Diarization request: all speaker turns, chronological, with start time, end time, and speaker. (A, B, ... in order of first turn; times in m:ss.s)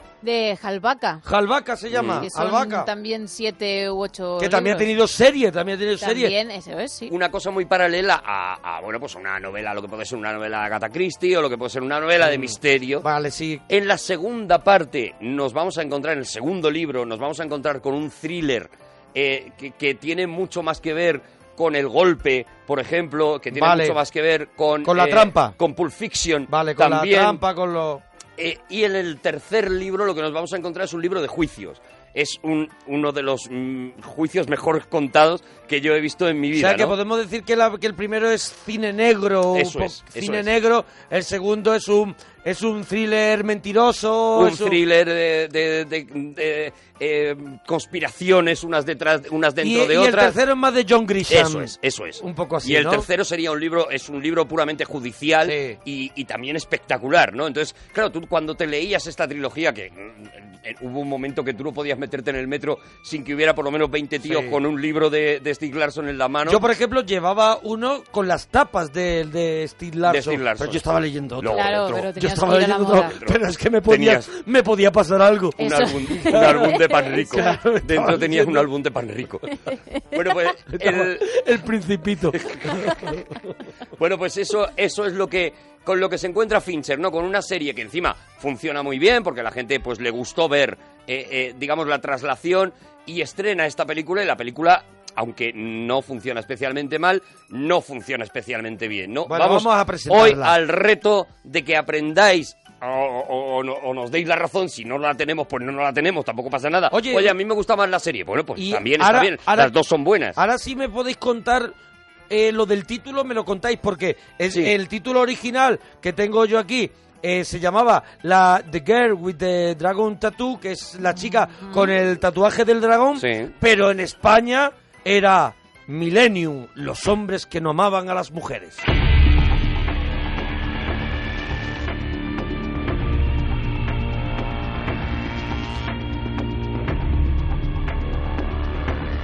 0:00.2-0:01.2 A
0:01.2-0:02.9 B
0:01.9-0:02.3 C
0:02.2-0:04.9 A
0:04.4-0:06.3 B
0:06.0-0:07.1 A
0:07.1-0:13.1 C
0:12.2-0:13.6 B
0:13.7-0:27.4 C
0:23.5-0:24.0 B
0:24.8-0:25.6 B
0:26.5-0:28.0 B
0:28.4-0:37.0 C
0:36.5-0:44.8 B
0:39.5-0:40.5 C
0:44.4-0:50.4 C
0:49.6-0:53.1 B
0:51.3-1:06.6 C
0:55.4-0:55.8 B
1:04.2-1:04.6 B
1:06.4-1:18.7 B
1:10.0-1:10.8 C
1:11.4-1:12.1 C
1:11.5-1:13.2 A
1:13.1-1:14.3 C
1:15.6-1:19.6 C
1:15.6-1:17.6 A
1:19.5-1:19.8 A
1:20.1-1:21.4 C
1:20.7-1:23.3 B
1:22.3-1:23.2 C
1:24.0-1:50.4 C
1:39.3-1:40.6 B
1:46.9-1:47.4 B
1:48.6-1:49.7 B
1:50.4-1:51.7 B
1:52.3-2:08.8 B
2:03.2-2:03.5 C